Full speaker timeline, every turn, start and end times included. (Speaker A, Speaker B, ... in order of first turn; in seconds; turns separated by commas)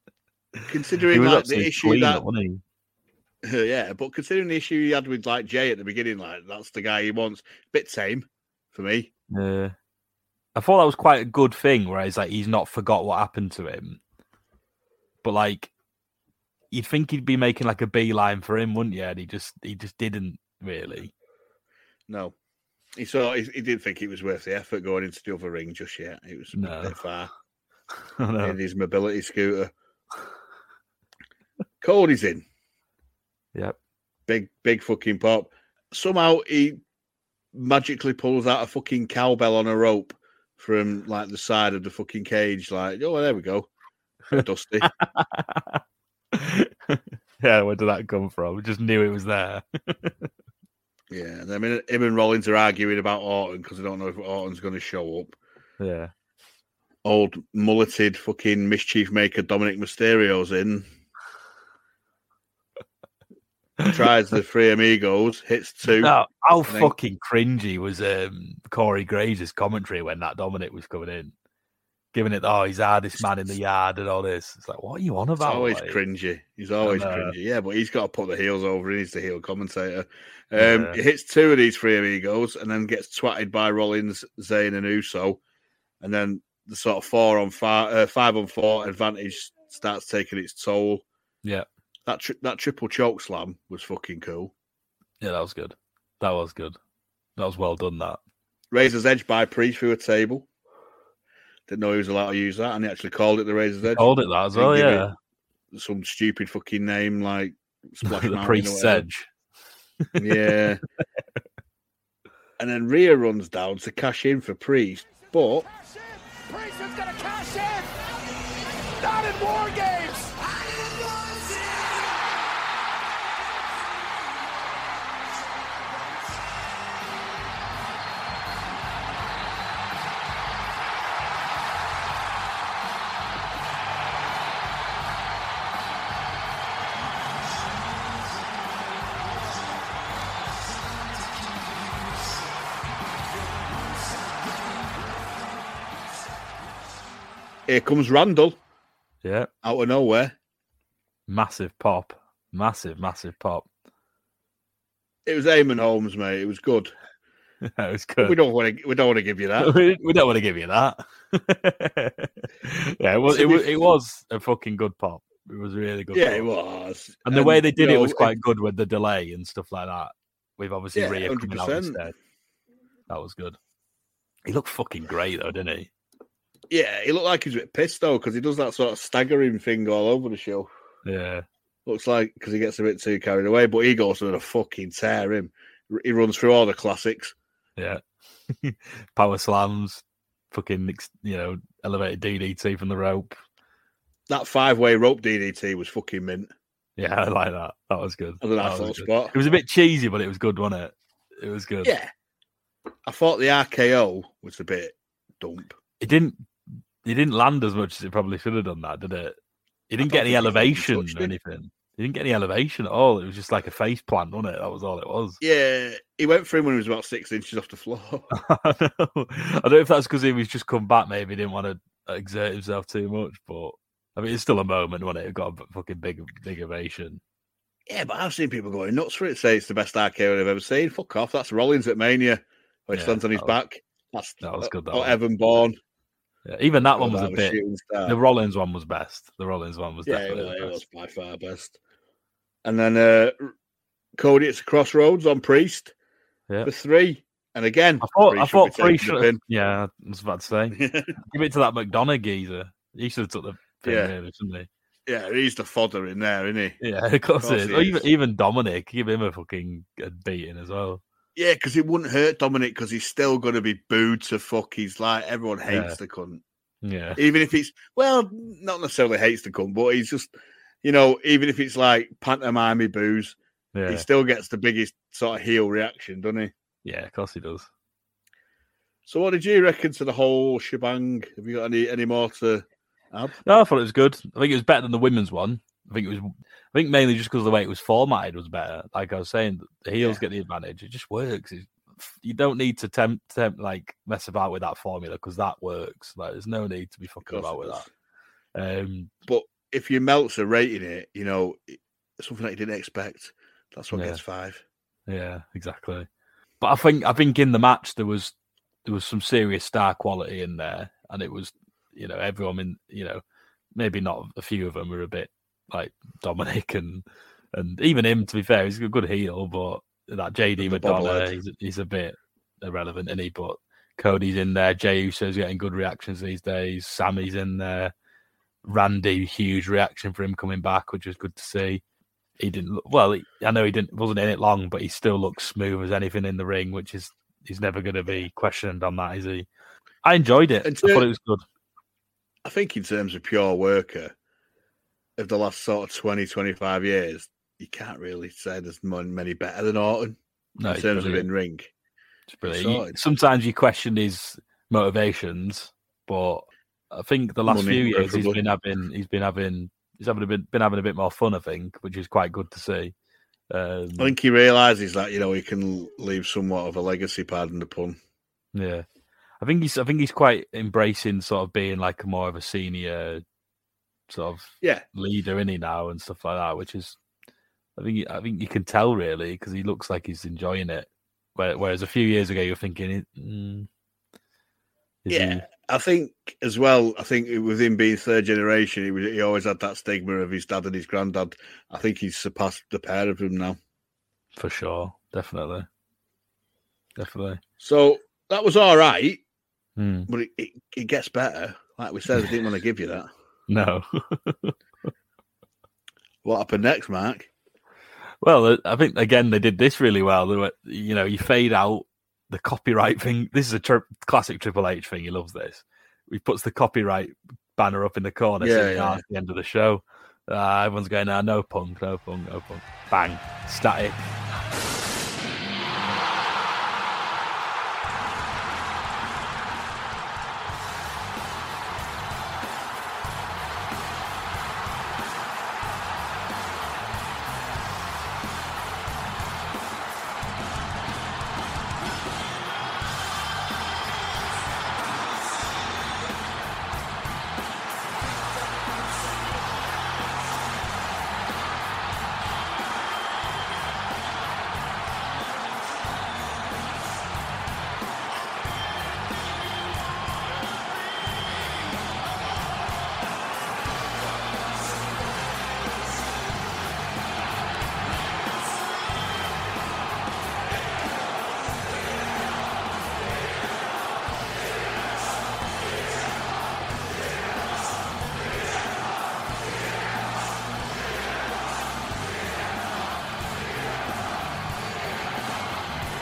Speaker A: 0.7-2.2, Speaker B: 1.1-2.6, Speaker A: 3.4-9.1, Speaker B: 9.3-9.7, Speaker B: 10.5-14.0, Speaker B: 15.2-15.7, Speaker B: 16.7-21.1, Speaker A: 22.1-22.3, Speaker A: 22.9-27.3, Speaker B: 26.5-27.0, Speaker B: 28.2-28.6, Speaker A: 28.4-29.7, Speaker A: 31.8-32.4, Speaker A: 34.3-36.8, Speaker A: 37.5-43.7, Speaker A: 44.3-44.9, Speaker B: 44.3-45.8, Speaker B: 46.3-50.3, Speaker A: 51.1-55.4, Speaker B: 55.8-56.1, Speaker A: 57.0-60.9, Speaker A: 63.8-66.1, Speaker B: 65.9-71.3, Speaker A: 66.7-66.9, Speaker B: 72.1-76.0, Speaker A: 75.4-85.4, Speaker B: 76.8-77.3, Speaker B: 80.5-81.0, Speaker A: 86.0-91.0, Speaker A: 92.0-94.5, Speaker B: 95.2-96.8, Speaker B: 97.4-98.2, Speaker A: 98.7-100.5, Speaker A: 101.7-105.0, Speaker B: 103.9-105.1, Speaker A: 105.7-109.1, Speaker B: 108.0-109.3, Speaker A: 110.2-110.8, Speaker A: 112.6-115.7, Speaker C: 115.7-122.5, Speaker C: 123.4-126.7, Speaker C: 137.0-138.2, Speaker C: 139.0-142.5, Speaker C: 143.3-145.9, Speaker A: 147.7-148.6, Speaker B: 149.2-149.5, Speaker A: 149.6-150.3, Speaker B: 151.3-153.7, Speaker A: 155.2-156.9, Speaker B: 157.7-158.3, Speaker A: 158.2-159.7, Speaker B: 159.6-166.5, Speaker A: 163.3-163.8, Speaker A: 166.1-168.3, Speaker B: 167.2-172.1, Speaker A: 170.9-172.0, Speaker B: 173.1-173.6, Speaker B: 174.4-175.9, Speaker A: 176.7-180.7, Speaker B: 181.0-181.4, Speaker A: 181.8-187.3, Speaker B: 187.8-193.4, Speaker A: 194.3-196.5, Speaker B: 197.0-201.9, Speaker A: 198.4-199.3, Speaker A: 201.8-202.1, Speaker A: 203.1-205.8, Speaker B: 206.0-206.5, Speaker B: 207.0-209.4, Speaker B: 209.9-215.4, Speaker A: 210.0-211.3, Speaker A: 215.4-218.3, Speaker B: 218.3-227.2, Speaker A: 227.9-235.8, Speaker B: 232.9-233.5, Speaker B: 234.4-235.2, Speaker B: 236.4-240.8, Speaker A: 236.8-238.2, Speaker A: 240.1-241.8, Speaker A: 242.6-243.5, Speaker A: 244.2-245.9, Speaker A: 246.6-249.4, Speaker B: 248.0-254.7, Speaker A: 250.7-251.2, Speaker A: 253.8-254.1, Speaker A: 255.1-256.8, Speaker B: 256.8-261.0, Speaker A: 257.4-258.1, Speaker A: 261.4-266.4, Speaker B: 265.7-266.0, Speaker B: 266.8-267.2, Speaker A: 267.2-270.3, Speaker A: 270.8-273.4, Speaker B: 273.7-274.1, Speaker A: 273.9-276.5, Speaker B: 276.8-277.7, Speaker A: 279.1-283.4, Speaker B: 283.4-297.8, Speaker A: 297.2-297.9, Speaker B: 298.5-299.1, Speaker A: 299.3-304.6, Speaker B: 303.9-304.2, Speaker B: 305.1-306.1, Speaker B: 306.6-308.3, Speaker B: 308.8-313.2, Speaker B: 313.8-327.9, Speaker A: 320.6-321.3, Speaker B: 328.6-331.8, Speaker B: 332.4-339.5, Speaker B: 340.0-341.4, Speaker A: 340.6-341.1, Speaker A: 342.4-344.1, Speaker A: 345.2-351.7, Speaker B: 350.6-351.3, Speaker B: 352.3-362.9, Speaker A: 352.4-352.9, Speaker A: 357.5-358.4, Speaker B: 363.5-364.1, Speaker A: 364.0-368.0, Speaker B: 368.5-368.8, Speaker B: 369.4-373.2, Speaker B: 374.1-377.0, Speaker B: 377.8-383.7, Speaker B: 385.0-385.4, Speaker A: 385.1-393.6, Speaker B: 394.4-395.7, Speaker B: 397.0-397.4, Speaker A: 397.6-399.2, Speaker B: 399.8-400.1, Speaker A: 400.1-403.1, Speaker B: 403.5-404.5, Speaker A: 406.2-407.3, Speaker B: 408.2-424.2, Speaker A: 418.4-419.0